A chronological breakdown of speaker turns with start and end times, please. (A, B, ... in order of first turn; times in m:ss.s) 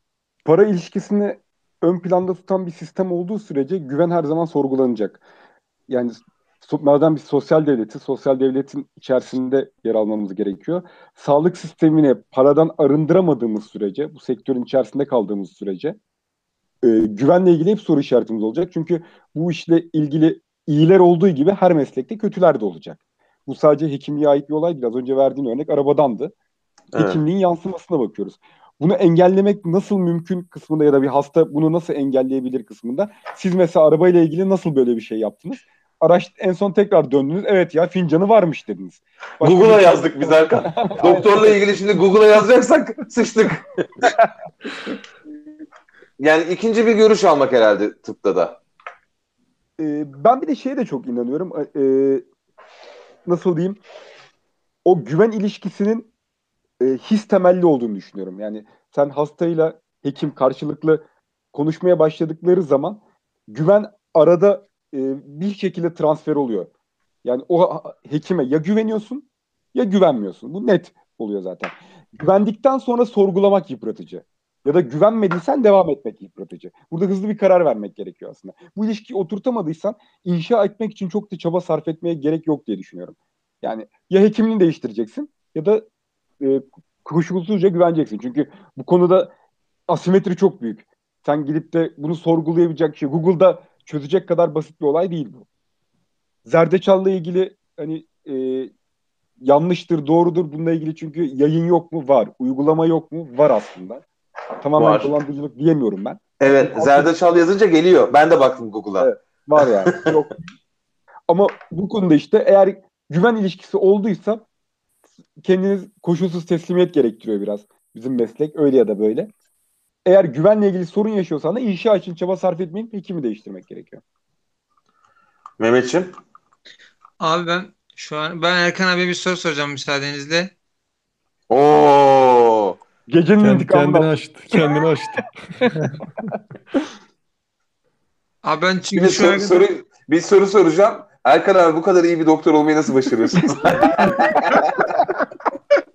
0:00.4-0:05.2 A
0:05.9-0:16.0 A
0:16.8-0:26.3 A
0:26.9-0:27.2 B
0:26.9-0:41.6 A
0:39.4-0:44.1 B
0:44.0-0:44.3 A
0:46.2-0:48.6 B
0:49.8-0:52.2 A
0:53.3-0:53.8 A
0:54.8-0:56.1 A
0:56.8-1:06.7 A
1:07.2-1:25.8 A
1:26.4-1:29.3 A
1:29.9-1:35.4 A
1:36.4-1:38.7 A
1:39.4-1:44.0 A
1:44.6-1:47.1 A
1:44.8-1:45.1 B
1:46.4-1:49.1 B
1:49.0-1:50.4 A
1:51.3-1:54.4 A
1:55.4-1:59.3 A
2:00.0-2:04.0 A
2:05.6-2:06.1 B
2:07.2-2:10.5 C
2:11.5-2:12.8 B
2:13.1-2:14.7 A
2:13.4-2:15.7 D
2:18.4-2:19.6 C
2:18.9-2:24.9 B
2:23.9-2:24.6 A